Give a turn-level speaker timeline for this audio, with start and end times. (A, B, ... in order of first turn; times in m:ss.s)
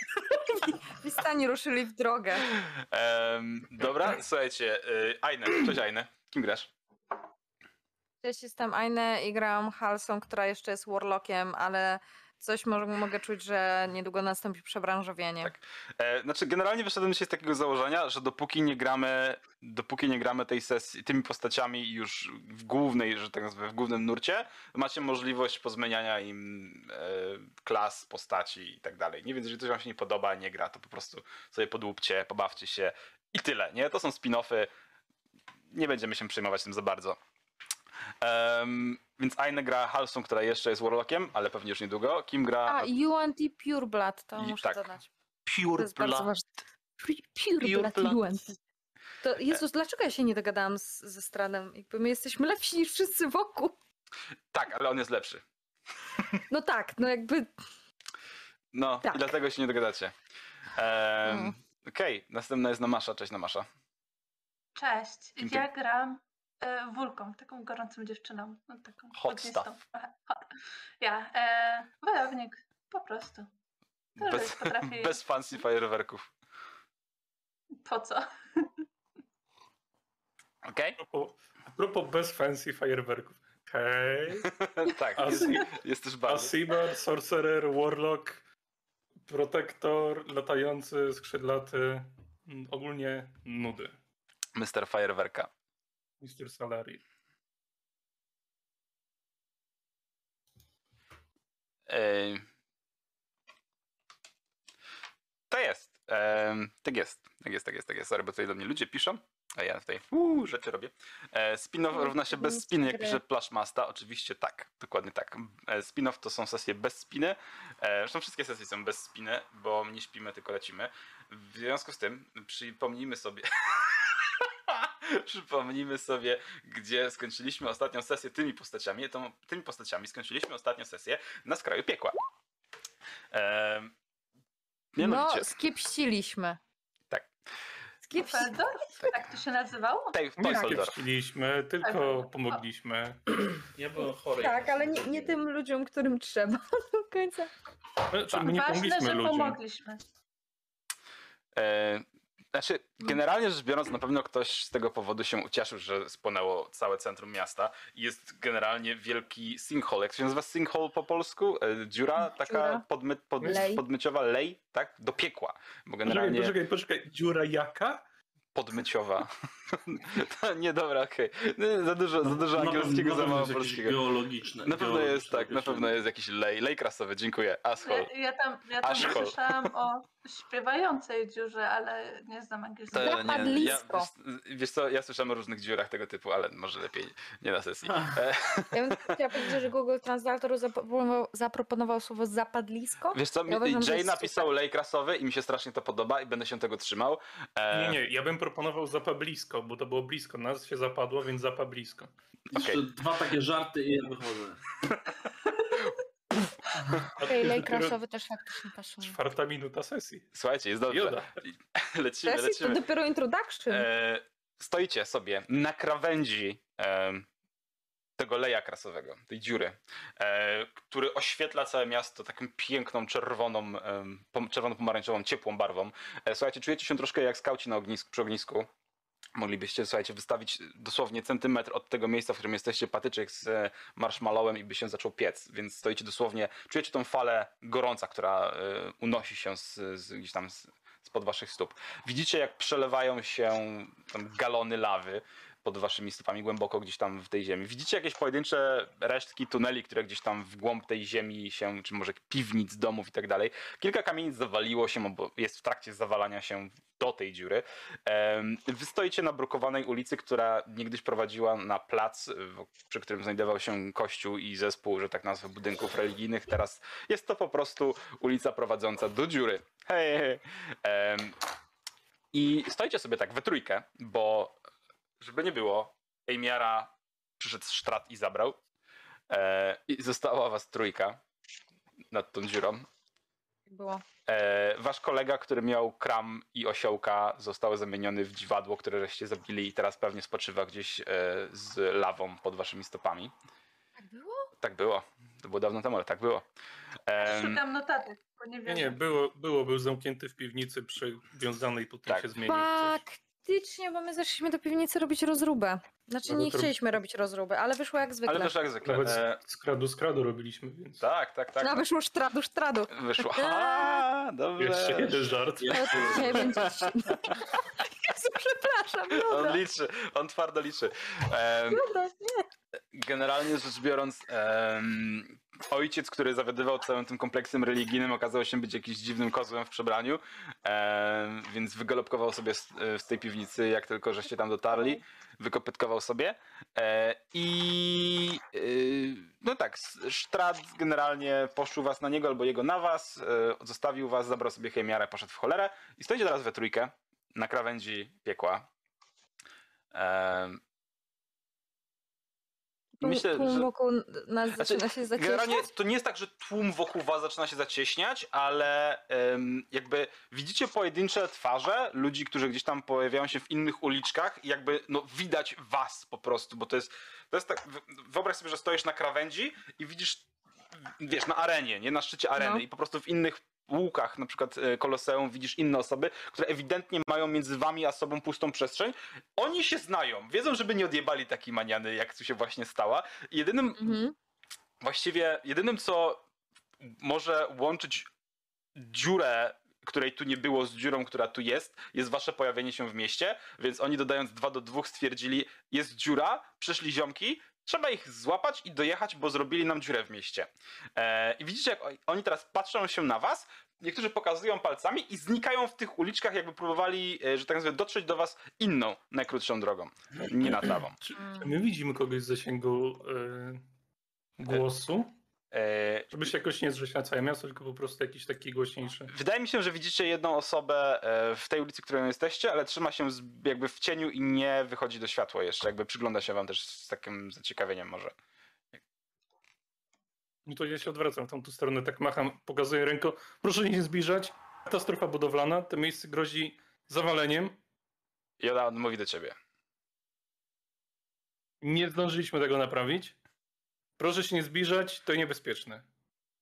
0:00.7-0:02.6 A
0:02.5-0:06.7 B
0:08.2-0:15.5 A
0:15.4-0:34.7 B
0:35.7-0:37.2 B
0:38.2-0:42.9 B
0:42.6-0:45.1 A
0:44.4-0:44.9 B
0:45.4-0:46.3 B
0:45.7-0:46.5 A
0:47.0-0:48.6 A
0:47.6-0:48.2 B
0:49.2-0:53.8 A
0:54.5-0:55.4 B
0:56.5-0:57.5 A
0:58.7-1:00.1 B
1:00.7-1:03.6 B
1:01.2-1:01.5 A
1:04.7-1:13.5 C
1:05.4-1:05.7 B
1:09.2-1:09.8 B
1:14.2-1:16.3 B
1:14.2-1:15.2 C
1:17.8-1:18.7 C
1:20.6-1:21.0 B
1:21.0-1:28.4 D
1:24.6-1:26.6 B
1:29.3-1:34.0 D
1:34.5-1:35.5 B
1:36.2-1:37.0 D
1:41.9-1:42.4 B
1:45.5-2:12.2 B
1:51.9-1:53.2 A
2:13.3-2:13.9 B
2:14.9-2:15.6 B
2:15.0-2:16.6 A
2:18.0-2:18.6 A
2:18.1-2:20.2 C
2:20.1-2:21.0 B
2:20.4-2:23.2 D
2:21.8-2:22.6 C
2:23.6-2:25.4 E
2:24.4-2:27.5 A
2:28.1-2:29.6 D
2:28.4-2:30.0 C
2:31.5-2:46.5 B
2:42.3-2:42.8 A
2:43.4-2:43.7 D
2:43.4-2:43.8 A
2:46.0-2:48.0 D
2:48.5-2:54.0 B
2:52.2-2:55.9 E
2:54.6-2:58.1 B
2:57.8-3:03.8 C
2:58.8-2:59.7 B
3:02.9-3:09.5 B
3:02.9-3:04.1 A
3:08.7-3:14.5 A
3:13.1-3:18.0 B
3:17.7-3:22.1 D
3:22.5-3:24.8 E
3:22.5-3:22.8 B
3:27.0-3:28.0 D
3:27.2-3:29.2 A
3:29.0-3:30.3 D
3:30.3-3:32.8 B
3:30.9-3:31.3 D
3:32.2-3:33.9 A
3:33.7-3:37.3 B
3:38.2-3:48.7 B
3:49.4-4:31.4 B
4:32.3-4:34.6 B
4:35.2-4:38.6 B
4:39.3-4:41.2 B
4:42.1-4:42.9 B
4:43.7-4:44.0 A
4:44.3-4:53.3 B
4:54.0-4:54.5 A
4:54.6-4:56.5 B
4:57.1-4:57.6 B
4:57.2-4:59.0 C
4:58.6-5:03.0 D
5:02.4-5:08.5 A
5:06.2-5:06.7 D
5:08.2-5:09.4 B
5:08.8-5:11.0 D
5:11.0-5:11.8 B
5:11.6-5:14.0 A
5:12.9-5:15.3 B
5:14.6-5:16.6 D
5:15.6-5:16.5 E
5:15.7-5:19.6 A
5:16.4-5:17.4 B
5:19.2-5:21.8 B
5:21.7-5:22.4 A
5:22.9-5:48.7 B
5:49.9-5:50.6 B
5:53.0-5:55.7 A
5:53.0-5:53.7 B
5:54.6-6:10.2 B
6:10.8-6:24.0 B
6:12.4-6:12.6 A
6:23.8-6:24.1 A
6:24.8-6:26.2 B
6:26.8-6:28.1 B
6:28.7-6:51.0 B
6:51.0-6:53.6 D
6:54.4-6:55.1 D
6:55.5-6:56.3 B
6:56.1-6:59.1 D
6:59.1-7:08.1 B
7:10.4-7:17.6 D
7:18.4-7:19.4 B
7:21.6-7:23.2 D
7:24.0-7:25.8 D